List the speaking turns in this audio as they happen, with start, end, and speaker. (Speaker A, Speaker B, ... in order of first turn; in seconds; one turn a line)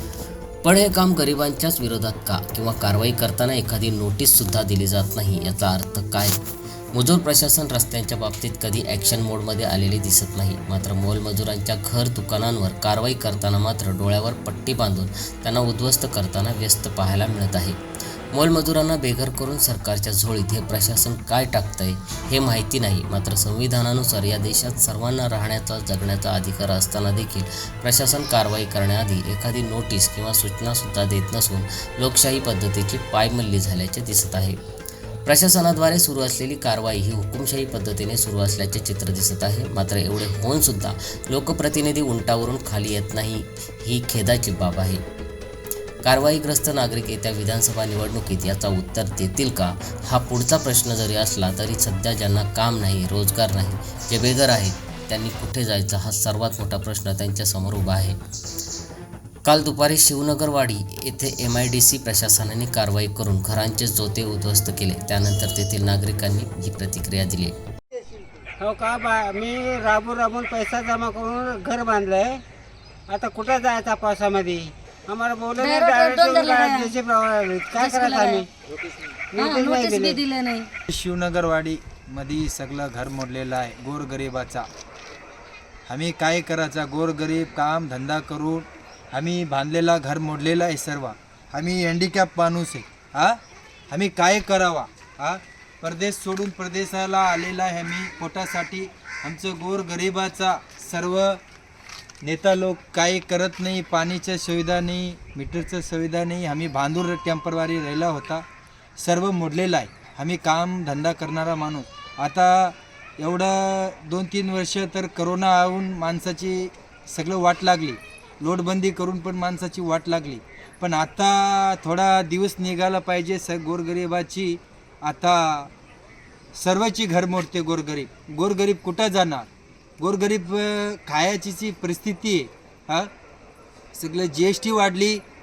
Speaker A: 0.6-6.4
Speaker A: 6.9-17.8
Speaker A: 18.3-34.6
Speaker A: 35.2-45.0
Speaker A: 46.0-58.2
Speaker A: 59.5-67.6
Speaker B: 68.6-72.4
Speaker B: 73.1-78.5
Speaker C: 75.6-76.9
Speaker C: 77.8-78.5
Speaker B: 79.3-80.2
Speaker C: 79.4-80.7
Speaker D: 80.9-84.7
Speaker D: 85.9-93.4
Speaker D: 93.9-101.4
Speaker D: 102.2-108.4
Speaker D: 109.0-125.7
Speaker D: 126.6-129.5
Speaker D: 130.0-133.1
Speaker D: 133.9-135.2